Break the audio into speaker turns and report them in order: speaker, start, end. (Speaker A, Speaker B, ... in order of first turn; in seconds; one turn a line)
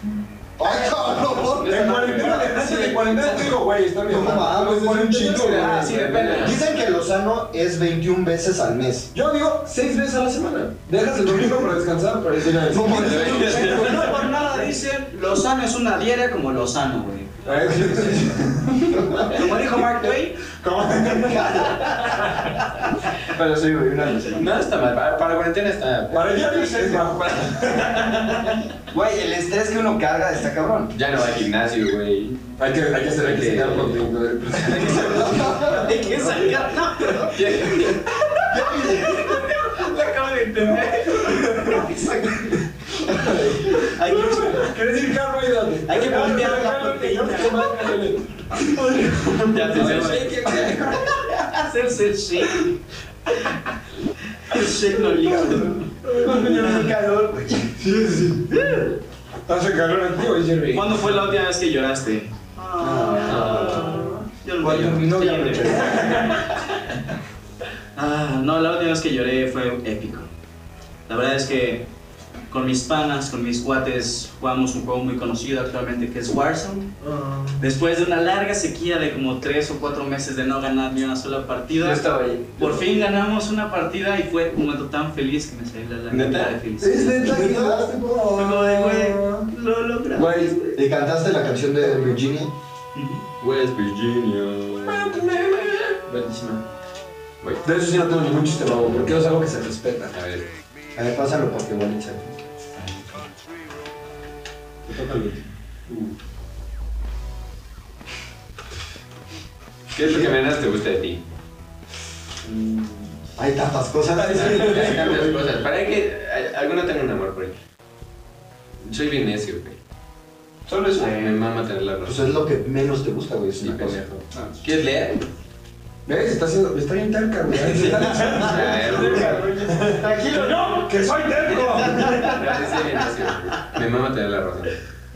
Speaker A: 0.6-2.5
Speaker B: 1.3-2.7
Speaker C: 1.5-6.2
Speaker D: 2.6-2.9
Speaker A: 4.0-9.1
Speaker D: 5.2-6.5
Speaker B: 5.8-6.6
Speaker C: 9.1-14.2
Speaker A: 12.7-13.9
Speaker B: 12.8-14.2
Speaker D: 13.2-18.2
Speaker C: 17.4-22.5
Speaker D: 19.1-20.4
Speaker D: 21.4-22.1
Speaker E: 23.3-24.5
Speaker B: 24.3-27.0
Speaker C: 26.1-28.4
Speaker E: 28.9-30.9
Speaker B: 30.9-32.3
Speaker C: 32.6-35.8
Speaker B: 33.1-34.0
Speaker A: 34.8-35.9
Speaker D: 35.5-44.7
Speaker B: 37.3-38.0
Speaker A: 38.5-39.4
Speaker C: 43.1-51.1
Speaker D: 45.9-47.9
Speaker B: 49.5-50.2
Speaker D: 49.6-52.7
Speaker D: 54.5-55.9
Speaker C: 55.2-56.9
Speaker E: 56.2-58.7
Speaker D: 58.5-58.9
Speaker C: 59.5-61.3
Speaker D: 60.7-66.4
Speaker A: 62.8-64.0
Speaker B: 63.2-63.9
Speaker E: 64.6-66.0
Speaker A: 64.7-65.7
Speaker C: 65.9-66.4
Speaker D: 68.0-70.3
Speaker D: 71.1-71.9
Speaker D: 72.5-76.9
Speaker D: 77.6-82.0
Speaker E: 81.7-82.8
Speaker D: 82.6-87.5
Speaker B: 86.1-86.5
Speaker C: 86.8-89.5
Speaker A: 86.8-87.9
Speaker D: 88.3-90.7
Speaker C: 90.1-90.7
Speaker A: 90.7-92.5
Speaker C: 91.8-92.1
Speaker D: 92.9-93.2
Speaker B: 93.4-95.9
Speaker C: 94.8-96.6
Speaker C: 97.6-100.1
Speaker B: 100.1-100.5
Speaker A: 101.0-102.3
Speaker C: 104.8-106.1
Speaker B: 109.9-111.2
Speaker A: 110.0-110.3
Speaker C: 112.4-113.1
Speaker A: 113.3-115.5
Speaker C: 114.1-115.2
Speaker B: 114.3-117.5
Speaker B: 118.8-119.7
Speaker E: 120.7-121.4
Speaker B: 121.0-122.3
Speaker A: 122.0-124.0
Speaker B: 123.6-125.2
Speaker C: 126.0-132.4
Speaker E: 128.0-130.9
Speaker B: 128.3-129.5
Speaker B: 132.1-134.7